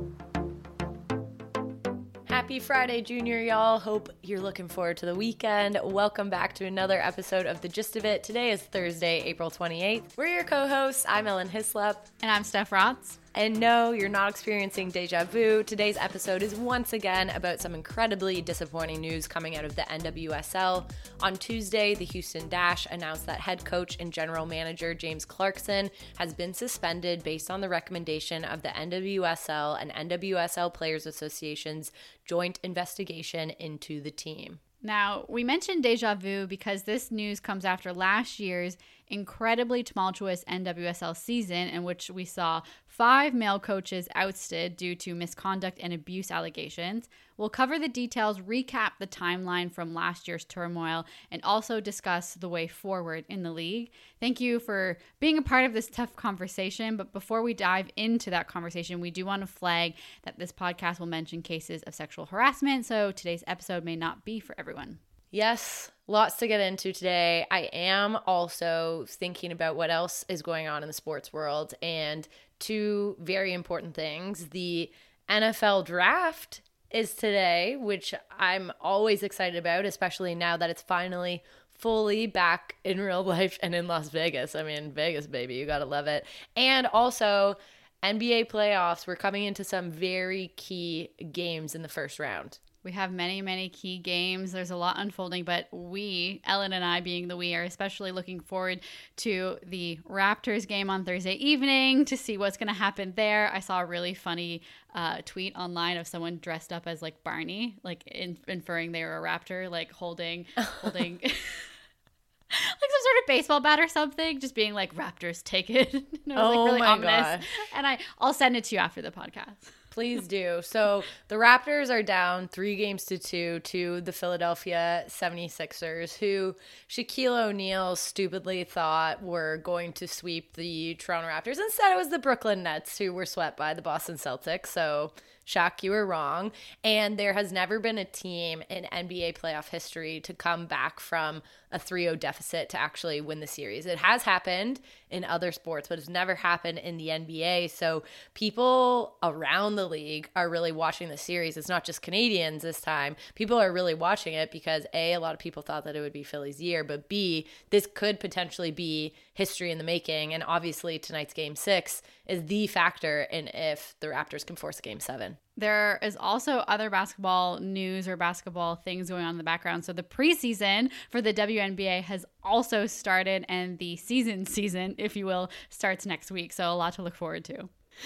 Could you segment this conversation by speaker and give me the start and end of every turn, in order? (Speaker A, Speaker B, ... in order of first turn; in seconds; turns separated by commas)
Speaker A: 2.3-12.1, Speaker B: 12.2-13.2, Speaker A: 13.3-34.6, Speaker B: 34.8-65.0, Speaker A: 65.3-92.6, Speaker B: 92.8-111.7, Speaker B: 112.5-119.7, Speaker A: 116.3-117.5, Speaker A: 119.9-165.4, Speaker B: 165.6-177.7